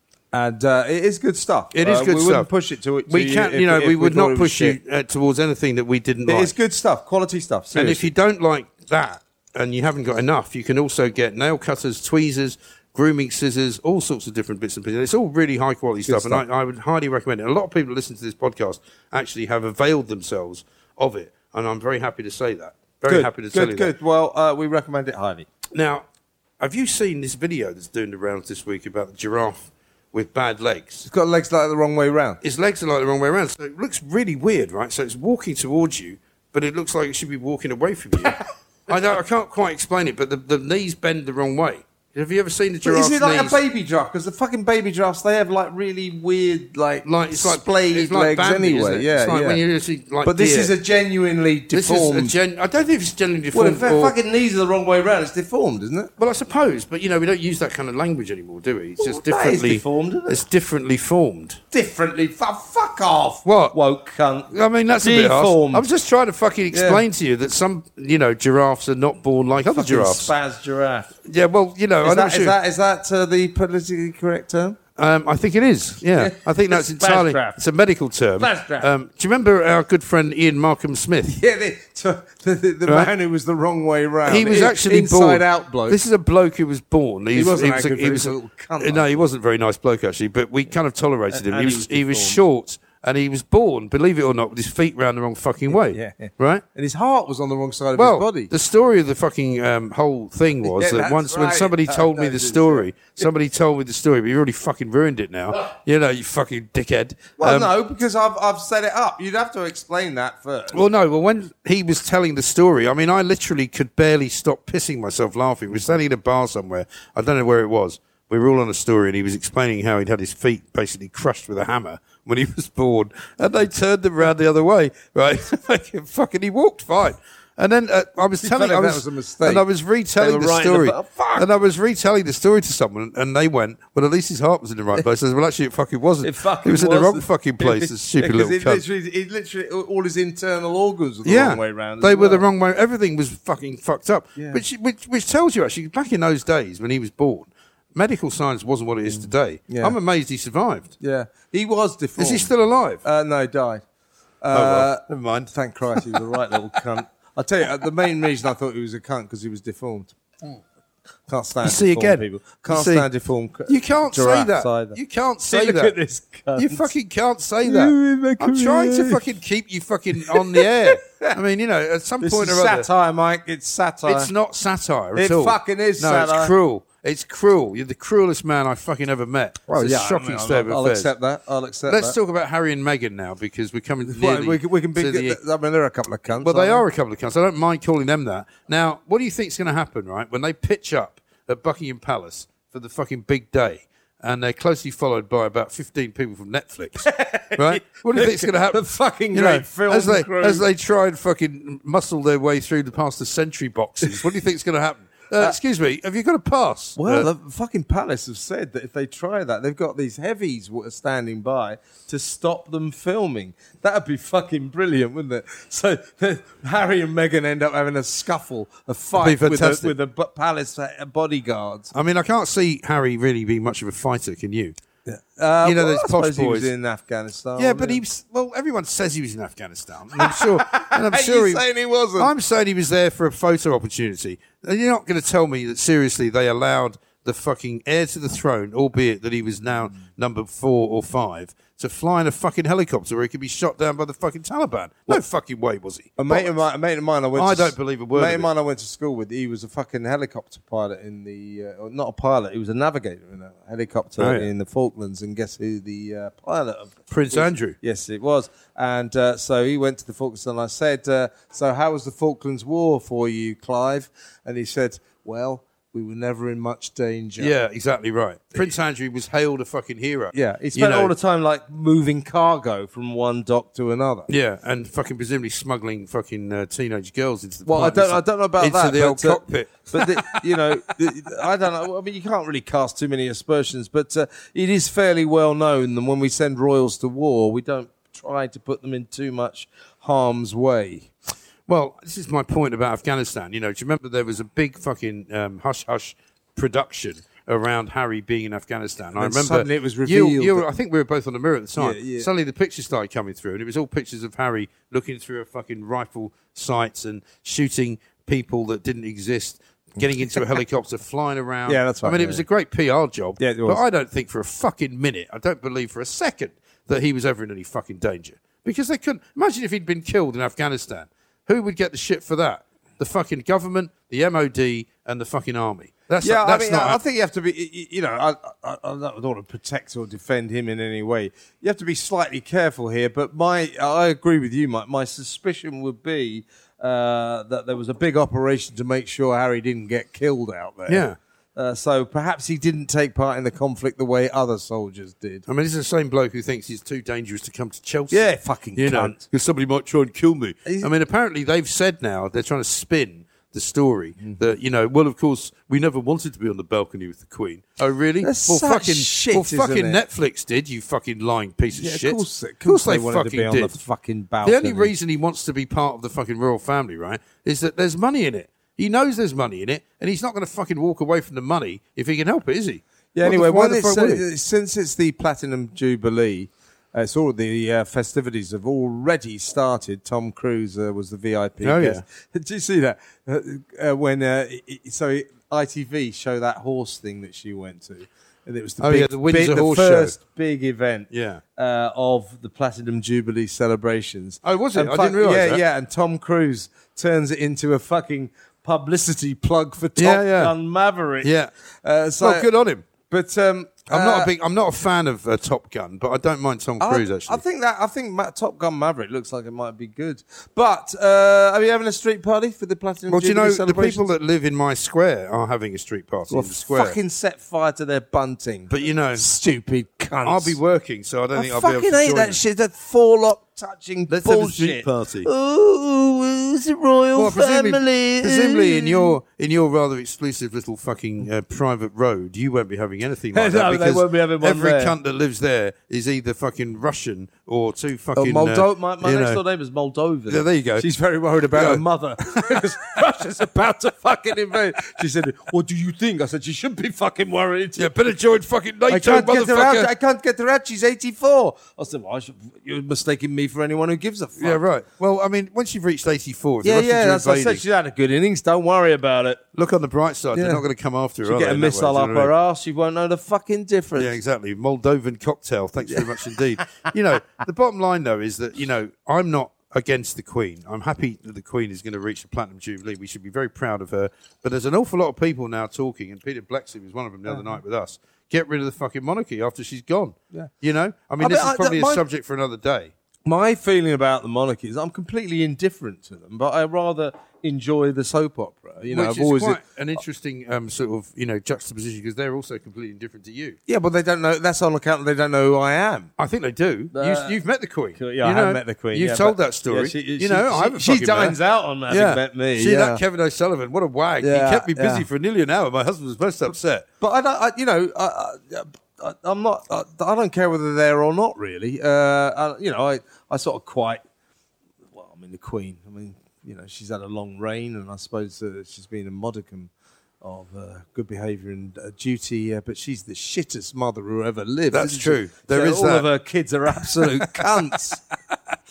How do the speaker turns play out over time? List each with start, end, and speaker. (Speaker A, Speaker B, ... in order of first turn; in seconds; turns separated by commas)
Speaker A: 0.3-4.8, Speaker B: 1.7-2.5, Speaker B: 3.1-6.5, Speaker A: 6.3-8.1, Speaker B: 7.7-23.9, Speaker A: 16.1-16.4, Speaker A: 23.1-25.5, Speaker B: 25.7-26.1, Speaker B: 26.6-31.1, Speaker A: 31.1-32.4, Speaker B: 32.4-38.4, Speaker B: 38.9-43.6, Speaker A: 42.8-49.6, Speaker B: 47.0-50.7, Speaker A: 50.2-52.3, Speaker B: 51.7-54.1, Speaker A: 53.5-56.1, Speaker B: 56.2-61.6, Speaker A: 59.0-60.4, Speaker A: 61.7-65.8, Speaker B: 63.5-63.8, Speaker B: 64.5-70.3, Speaker A: 66.7-67.0, Speaker A: 69.6-71.1, Speaker B: 71.2-72.6, Speaker A: 72.0-74.8, Speaker B: 75.0-81.4, Speaker A: 76.2-77.6, Speaker A: 78.4-78.9, Speaker A: 81.3-86.0, Speaker B: 82.9-83.1, Speaker B: 84.3-96.6, Speaker A: 87.3-89.2, Speaker A: 91.3-92.4, Speaker A: 95.7-98.5, Speaker B: 98.0-107.7, Speaker A: 100.6-103.2, Speaker A: 107.4-110.8, Speaker B: 110.7-138.8, Speaker A: 128.4-129.7, Speaker A: 130.2-131.5, Speaker A: 136.2-142.5, Speaker B: 141.2-150.9, Speaker A: 149.1-150.0, Speaker A: 151.0-152.5, Speaker B: 152.2-153.0, Speaker A: 153.0-153.8, Speaker A: 154.4-160.1, Speaker B: 154.5-156.2, Speaker A: 161.3-166.9, Speaker B: 161.6-163.1, Speaker B: 163.7-165.9, Speaker B: 166.6-172.9, Speaker A: 167.6-169.2, Speaker A: 170.2-171.4, Speaker A: 172.2-174.3, Speaker B: 174.1-181.1, Speaker A: 175.2-176.5, Speaker A: 179.7-182.2, Speaker B: 181.9-185.4, Speaker A: 184.1-186.8, Speaker B: 186.4-207.3, Speaker A: 197.1-200.7, Speaker A: 207.0-221.9, Speaker B: 219.2-219.9, Speaker B: 221.9-224.8, Speaker A: 225.1-228.0, Speaker B: 225.6-226.7, Speaker B: 227.6-231.6, Speaker A: 230.2-232.3, Speaker B: 232.2-246.5, Speaker A: 246.2-267.5, Speaker B: 247.3-248.5, Speaker B: 254.2-254.5, Speaker B: 257.1-257.8, Speaker B: 267.4-271.1, Speaker A: 270.3-274.3, Speaker B: 274.3-280.6, Speaker A: 277.7-291.1, Speaker B: 291.7-327.0, Speaker A: 299.2-300.6, Speaker A: 301.8-302.3, Speaker A: 311.7-312.4, Speaker A: 313.4-313.8, Speaker A: 326.2-345.4, Speaker B: 340.9-341.2, Speaker B: 345.5-348.2, Speaker A: 348.1-349.2, Speaker B: 348.8-363.7, Speaker A: 350.6-350.9, Speaker A: 358.2-360.0, Speaker A: 361.7-364.9, Speaker B: 364.4-374.2, Speaker A: 373.1-401.3, Speaker B: 381.6-382.0, Speaker B: 388.8-390.2, Speaker B: 391.1-391.4, Speaker B: 394.4-395.6, Speaker B: 400.0-400.5, Speaker B: 401.2-401.5, Speaker A: 401.8-402.5, Speaker B: 402.2-402.9, Speaker A: 403.1-404.3, Speaker B: 403.9-407.4, Speaker A: 406.8-414.0, Speaker B: 413.1-417.0, Speaker A: 416.3-420.6, Speaker B: 418.7-419.2, Speaker B: 420.2-422.4, Speaker A: 421.4-429.2, Speaker B: 424.1-425.3, Speaker B: 427.2-439.4, Speaker A: 433.3-434.9, Speaker A: 438.2-447.9, Speaker B: 440.3-440.9, Speaker B: 441.5-442.7, Speaker B: 447.8-449.9, Speaker A: 448.9-454.6, Speaker B: 454.4-457.6, Speaker A: 456.6-459.4, Speaker B: 459.5-462.3, Speaker A: 460.3-460.6, Speaker A: 461.2-464.2, Speaker B: 464.0-482.9, Speaker A: 465.9-466.4, Speaker A: 477.3-477.5, Speaker A: 481.2-482.0, Speaker A: 483.3-489.6, Speaker B: 488.9-493.6, Speaker A: 493.7-496.1, Speaker B: 496.2-501.4, Speaker A: 496.9-497.4, Speaker A: 498.0-503.0, Speaker B: 501.9-506.9, Speaker A: 504.2-505.1, Speaker A: 507.0-514.0, Speaker A: 515.0-519.7, Speaker A: 520.2-528.0, Speaker B: 524.7-526.1, Speaker B: 526.7-527.8